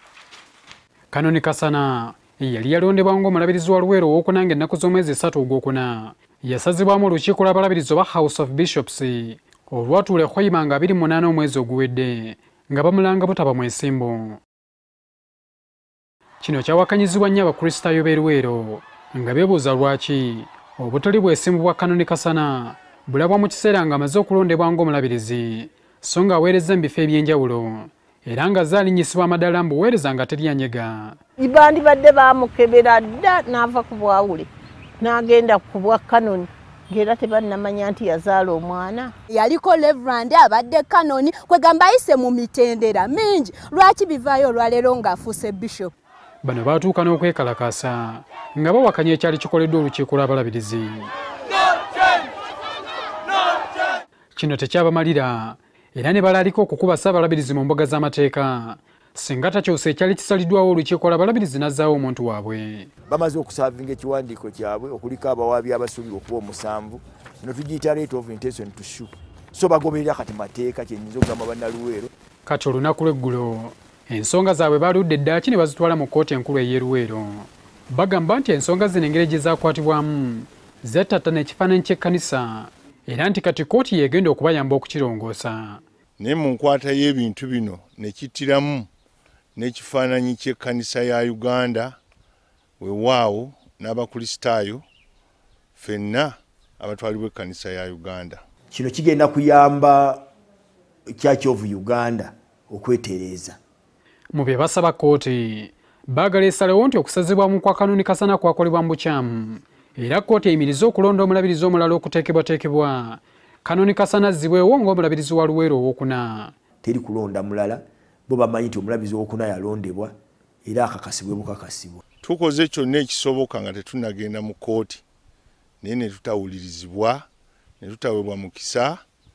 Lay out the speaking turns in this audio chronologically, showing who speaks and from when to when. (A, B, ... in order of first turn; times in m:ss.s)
0:01.1-0:14.4 A
0:16.4-0:31.2 A
0:31.4-0:34.5 B
0:35.0-0:39.1 B
0:39.4-0:45.8 C
0:46.4-0:51.1 A
0:54.3-1:02.9 A
1:03.1-1:12.1 D
1:12.4-1:25.8 A
1:26.2-1:28.9 E
1:29.6-1:32.0 E
1:32.8-1:34.8 E
1:35.8-1:38.4 E
1:38.7-1:40.2 D
1:41.2-1:43.6 D
1:44.3-1:56.5 A
1:56.8-2:00.1 D
2:00.6-2:02.0 D
2:02.2-2:05.0 E
2:05.8-2:07.2 E
2:07.8-2:09.0 E